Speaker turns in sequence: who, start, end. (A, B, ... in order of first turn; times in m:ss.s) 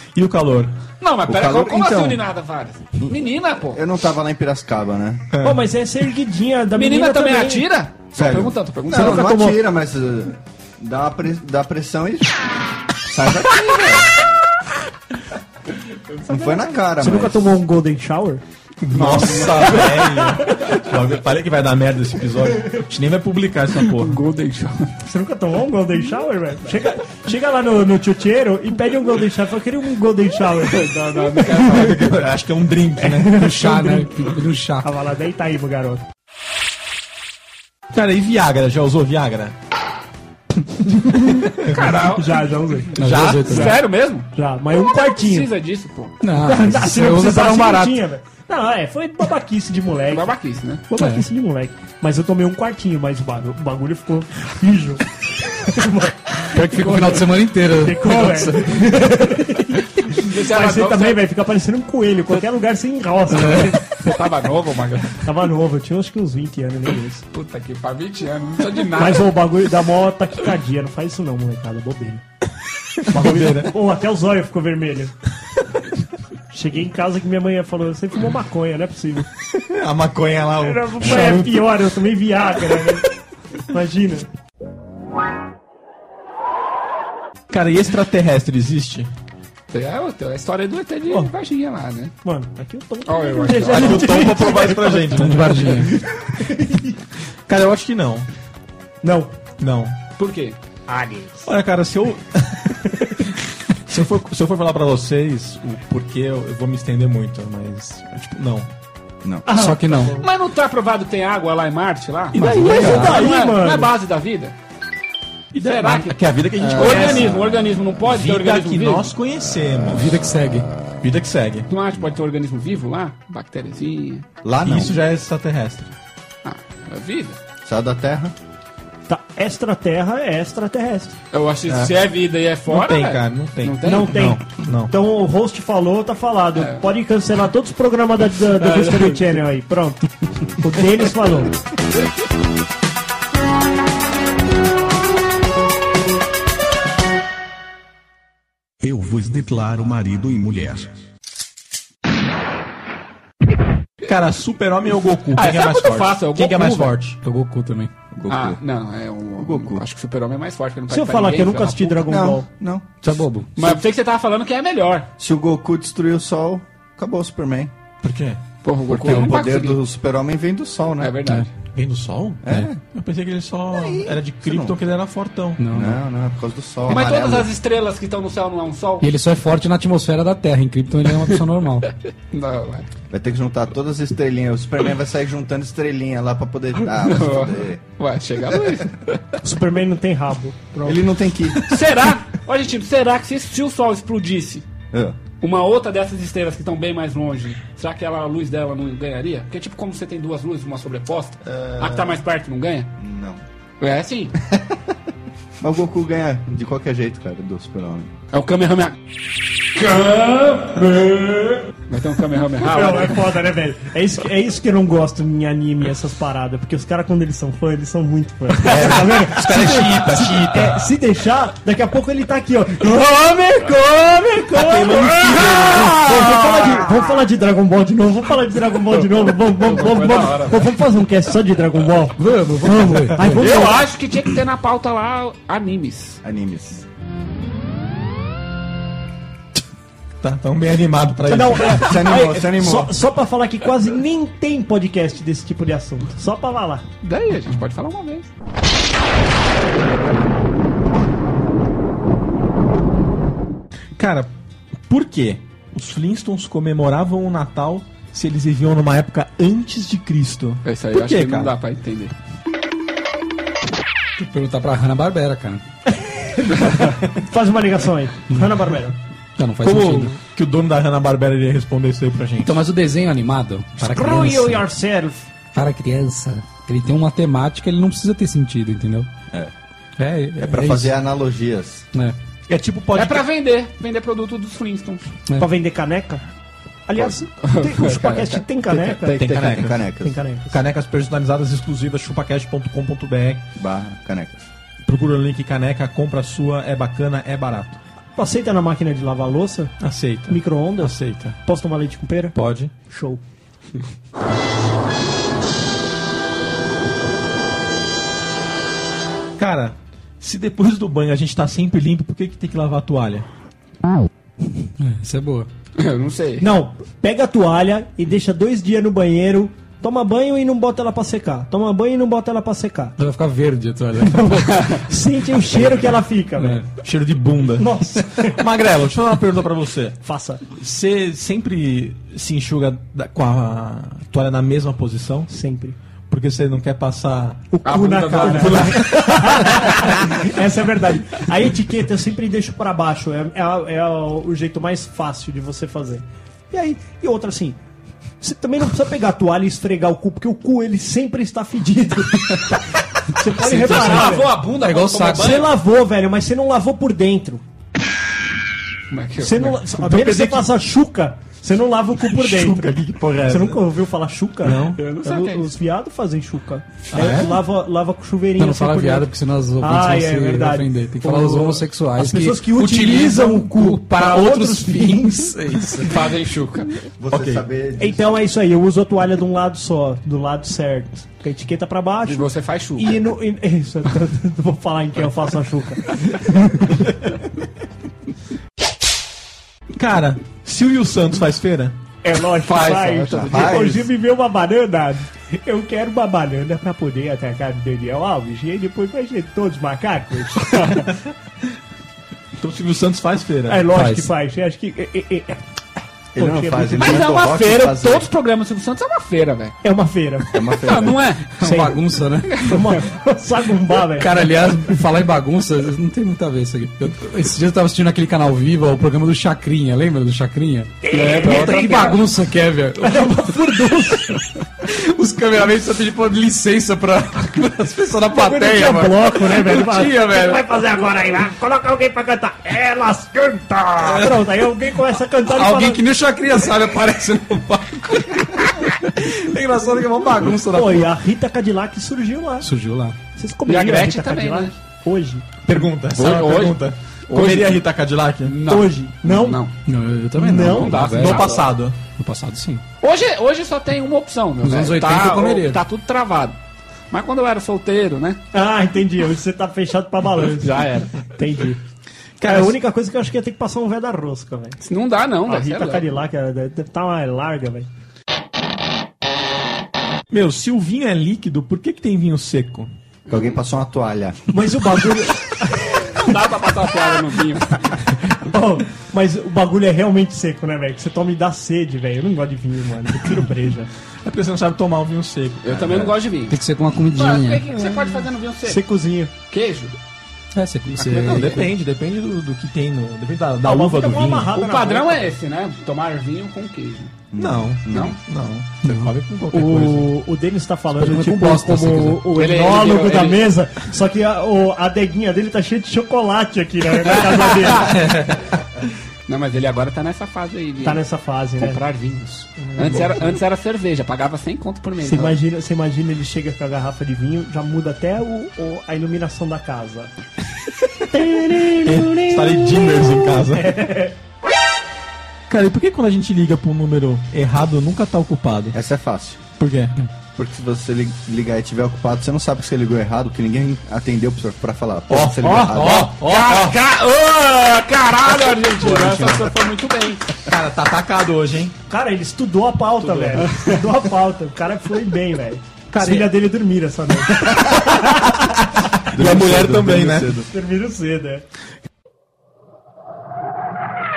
0:00.2-0:00.7 A
0:01.0-0:03.8 B
0:01.3-0:02.2 C
0:03.0-0:05.3 C
0:05.3-0:05.6 A
0:05.4-0:07.7 D
0:06.7-0:09.5 B
0:08.1-0:12.3 C
0:08.9-0:09.5 D
0:13.1-0:14.1 C
0:16.3-0:17.5 C
0:17.0-0:18.4 D
0:18.8-0:24.2 A
0:18.9-0:19.9 B
0:20.0-0:20.5 D
0:23.9-0:24.9 B
0:25.1-0:31.9 D
0:30.7-0:32.0 B
0:31.6-0:33.4 A
0:33.0-0:34.1 D
0:33.3-0:34.9 E
0:34.8-0:36.0 D
0:37.9-0:39.6 A
0:41.1-0:41.4 D
0:41.3-0:42.0 A
0:41.7-0:42.4 B
0:42.0-0:43.0 D
0:43.0-0:43.8 E
0:43.0-0:43.7 A
0:43.4-0:44.3 B
0:44.3-0:45.5 D
0:45.2-0:46.2 B
0:46.2-0:48.0 E
0:46.4-0:50.3 D
0:50.1-0:50.8 B
0:50.9-1:03.8 D
0:51.0-0:51.2 E
0:56.4-0:58.8 E
1:00.1-1:01.2 B
1:03.3-1:03.8 E
1:03.4-1:05.2 B
1:05.2-1:07.2 D
1:07.3-1:09.3 B
1:09.0-1:12.2 D
1:13.1-1:13.7 A
1:13.1-1:15.1 D
1:16.5-1:19.3 D
1:19.5-1:21.6 A
1:20.6-1:23.1 D
1:23.7-1:24.3 D
1:27.5-1:29.1 A
1:29.7-1:32.1 B
1:32.2-1:37.0 D
1:33.0-1:34.2 B
1:33.7-1:35.9 A
1:35.2-1:35.9 E
1:37.5-1:38.3 A
1:39.0-1:39.3 D
1:39.6-1:40.0 A
1:40.2-1:40.6 B
1:40.9-1:41.3 D
1:41.4-1:42.7 A
1:43.9-1:48.7 A
1:49.5-1:50.2 D
1:49.5-1:50.2 E
1:50.2-1:54.6 B
1:52.3-1:53.1 A
1:52.4-1:53.3 E
1:52.4-1:53.9 D
1:55.5-1:57.3 A
1:55.6-1:59.1 B
1:56.6-1:57.7 C
1:58.0-2:00.1 A
1:59.8-2:00.8 E
2:01.0-2:01.7 A
2:01.7-2:04.2 B
2:04.4-2:05.0 C
2:04.6-2:05.9 A
2:06.4-2:07.4 B
2:07.6-2:08.3 C
2:09.1-2:11.2 D
2:11.3-2:14.2 B
2:12.7-2:14.9 A
2:13.8-2:20.1 D
2:16.6-2:16.9 B
2:18.6-2:19.2 B
2:20.6-2:21.6 D
2:28.8-2:31.0 F
2:34.0-2:37.2 A
2:35.3-2:37.0 B
2:37.2-2:37.9 E
2:38.1-2:38.6 C
2:38.3-2:42.0 B
2:39.4-2:39.8 C
2:40.9-2:42.5 D
2:42.0-2:42.9 C
2:43.0-2:43.5 E
2:43.6-2:45.1 B
2:45.2-2:47.7 C
2:48.0-2:48.4 A
2:48.6-2:49.8 B
2:48.9-2:51.3 C
2:51.0-2:51.5 B
2:51.7-2:55.6 A
2:52.4-2:52.8 C
2:53.7-2:54.8 C
2:55.6-2:56.0 E
2:55.7-2:57.5 C
2:56.9-2:59.1 B
2:59.0-3:01.9 E
3:02.3-3:02.9 B
3:03.1-3:07.8 C
3:06.9-3:09.2 B
3:08.5-3:08.8 C
3:09.4-3:11.0 D
3:10.8-3:11.8 C
3:11.6-3:14.7 B
3:14.9-3:15.2 C
3:15.4-3:22.9 B
3:21.4-3:22.2 C
3:23.0-3:23.4 C
3:23.8-3:24.4 B
3:24.4-3:24.8 C
3:25.6-3:28.1 C
3:28.3-3:29.0 B
3:29.7-3:33.3 B
3:32.6-3:53.9 D
3:38.6-3:40.9 A
3:44.5-3:46.1 A
3:45.4-3:46.9 B
3:48.9-3:50.7 B
3:52.2-3:53.4 E
3:53.2-3:56.2 B
3:56.2-3:56.8 C
4:00.2-4:02.0 A
4:01.3-4:06.9 D
4:01.6-4:03.0 C
4:07.0-4:08.3 B
4:14.0-4:14.3 A
4:14.9-4:21.5 A
4:20.6-4:22.1 B
4:24.2-4:25.6 E
4:26.0-4:29.0 D
4:29.4-4:30.2 E
4:29.6-4:32.5 A
4:32.4-4:34.6 E
4:33.8-4:35.3 D
4:35.5-4:39.1 E
4:40.0-4:41.0 E
4:40.4-4:41.9 C
4:42.5-4:43.3 A
4:43.0-4:45.0 B
4:45.4-4:46.2 D
4:46.9-4:49.2 D
4:47.4-4:49.7 B
4:49.1-4:49.9 A
4:49.3-4:50.2 C
4:50.0-4:50.6 D
4:50.5-4:53.4 A
4:53.6-4:54.5 C
4:54.9-4:57.8 A
4:58.2-4:59.8 D
4:59.8-5:01.4 A
5:00.3-5:02.4 D
5:02.4-5:02.7 A
5:02.9-5:03.2 D
5:09.4-5:13.3 A
5:14.8-5:15.5 E
5:15.8-5:16.5 B
5:16.4-5:23.0 D
5:23.0-5:24.8 E
5:24.0-5:26.6 D
5:26.4-5:26.7 E
5:26.8-5:30.0 A
5:27.6-5:28.4 D
5:30.0-5:30.4 D
5:30.5-5:35.3 A
5:35.3-5:35.8 D
5:36.1-5:37.5 A
5:37.5-5:47.6 D
5:37.6-5:38.9 B
5:38.2-5:39.7 A
5:48.2-5:54.4 D
5:53.4-5:55.5 E
5:53.4-5:55.5 B
5:55.1-5:57.4 D
5:58.9-5:59.6 B
5:59.2-6:09.1 D
5:59.7-6:00.5 A
6:02.0-6:03.6 A
6:04.4-6:04.8 A
6:04.8-6:05.5 B
6:06.9-6:07.4 A
6:08.4-6:16.0 E
6:09.6-6:15.3 D
6:15.8-6:16.8 B
6:17.0-6:18.2 C
6:17.1-6:17.4 A
6:17.8-6:26.9 D
6:22.1-6:23.0 B
6:29.8-6:31.8 A
6:32.0-6:40.8 D
6:32.4-6:33.8 B
6:33.1-6:33.8 C
6:40.5-6:40.8 B
6:42.4-6:43.7 A
6:43.5-6:45.4 D
6:43.7-6:44.1 E
6:46.2-6:48.1 C
6:46.2-6:47.1 D
6:46.8-6:49.6 B
6:49.6-6:50.4 D
6:50.3-6:51.2 C
6:50.6-6:51.3 B
6:51.4-6:52.6 E
6:51.4-6:54.4 D
6:52.3-6:52.8 B
6:53.9-7:03.2 E
7:00.8-7:02.1 D
7:00.9-7:01.9 B
7:02.8-7:04.2 D
7:04.6-7:10.5 E
7:08.1-7:15.8 D
7:13.8-7:14.2 E
7:15.2-7:20.9 E
7:20.5-7:22.5 D
7:22.4-7:23.0 E
7:23.2-7:25.3 D
7:23.5-7:24.6 B
7:25.4-7:28.4 A
7:26.0-7:27.7 B
7:28.2-7:29.5 B
7:28.5-7:29.4 D
7:29.7-7:31.4 E
7:30.2-7:30.8 D
7:30.5-7:31.8 A
7:30.6-7:31.5 B
7:32.0-7:32.6 E
7:32.8-7:36.4 B
7:34.4-7:35.6 E
7:36.9-7:38.2 B
7:38.3-7:41.6 D
7:40.4-7:40.9 B
7:42.2-7:42.6 A
7:42.2-7:44.6 D
7:44.6-7:45.9 B
7:45.3-7:47.7 D
7:50.1-7:52.7 A
7:53.1-7:54.3 C
7:54.3-7:56.0 D
7:55.6-7:57.8 B
7:58.1-8:03.7 D
8:04.0-8:05.9 A
8:05.4-8:06.4 B
8:06.3-8:07.5 E
8:06.9-8:08.6 B
8:08.4-8:09.1 D
8:09.3-8:09.7 B
8:10.4-8:11.5 E
8:10.8-8:11.4 B
8:10.8-8:14.3 A
8:13.4-8:15.1 D
8:14.3-8:16.9 B
8:17.1-8:18.0 C
8:17.2-8:19.9 A
8:17.7-8:18.0 B
8:18.6-8:18.9 E
8:19.3-8:27.9 D
8:20.8-8:22.0 E
8:22.2-8:23.3 B
8:26.8-8:27.9 B
8:27.7-8:28.2 A
8:29.1-8:30.8 B
8:30.6-8:31.6 D
8:31.4-8:35.2 B
8:32.4-8:33.2 D
8:34.8-8:39.9 D
8:40.9-8:44.0 D
8:41.5-8:43.6 A
8:45.3-8:48.6 A
8:48.5-8:49.2 C
8:49.4-8:49.8 A
8:50.2-8:55.9 C
8:54.9-8:56.6 A
8:55.7-9:00.1 B
8:58.6-8:59.3 A
9:00.3-9:01.5 A
9:01.7-9:08.4 D
9:03.1-9:03.6 B
9:05.7-9:06.1 A
9:07.9-9:10.2 A
9:08.9-9:10.3 C
9:10.3-9:11.2 D